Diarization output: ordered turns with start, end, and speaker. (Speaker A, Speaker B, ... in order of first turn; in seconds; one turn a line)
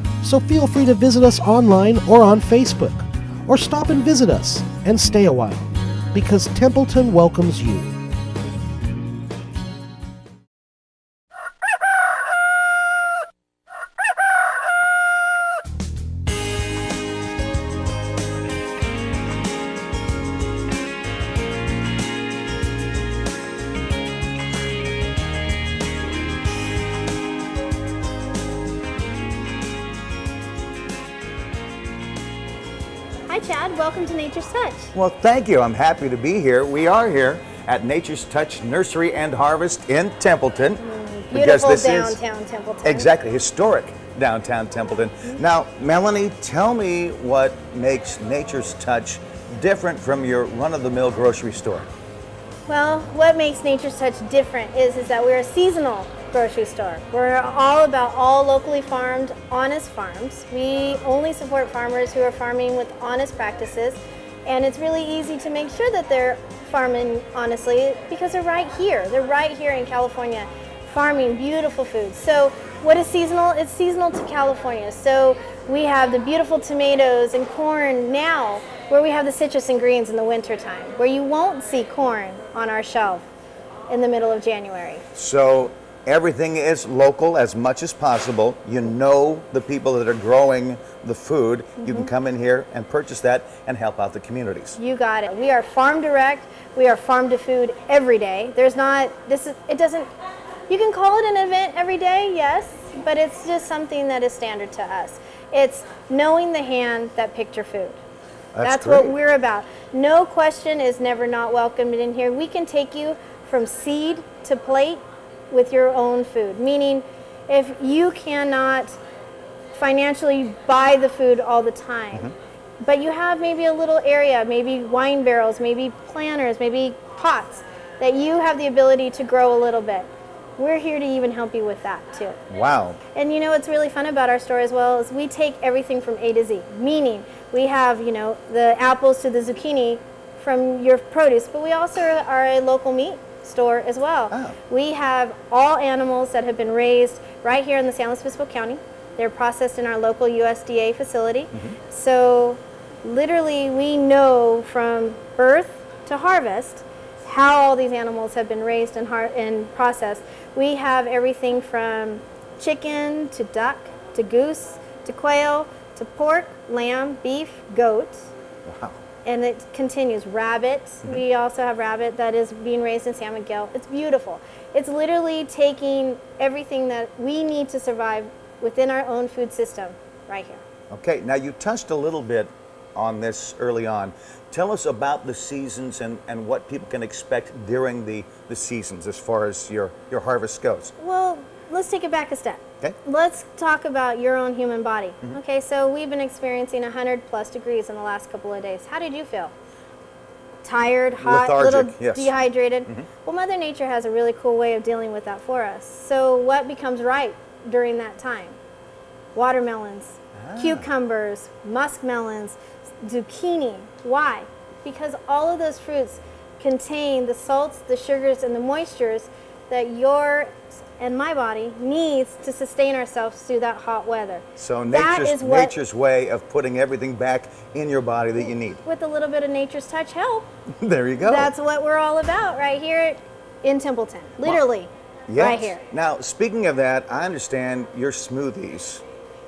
Speaker A: 0.2-8.0
Speaker B: 33.3-34.9
Speaker C: 34.9-40.8
Speaker B: 40.8-43.1
Speaker C: 41.3-42.2
Speaker C: 42.8-51.9
Speaker B: 52.7-83.2
Speaker B: 83.9-85.0
Speaker C: 85.1-94.8
Speaker B: 91.8-92.1
Speaker B: 94.8-100.1
Speaker B: 100.7-108.0
Speaker C: 108.5-109.2
Speaker B: 108.6-119.0
Speaker B: 119.7-122.3
Speaker B: 122.8-132.4
Speaker C: 132.5-133.0
Speaker B: 133.1-168.3
Speaker C: 144.3-144.6
Speaker C: 168.7-169.0
Speaker B: 169.2-180.6
Speaker C: 180.9-190.9
Speaker B: 191.0-199.5
Speaker B: 200.6-208.6
Speaker C: 201.2-202.3
Speaker B: 209.3-225.8
Speaker C: 210.3-210.9
Speaker C: 224.6-228.8
Speaker B: 228.8-230.5
Speaker C: 230.8-231.5
Speaker B: 231.2-235.8
Speaker C: 235.3-239.0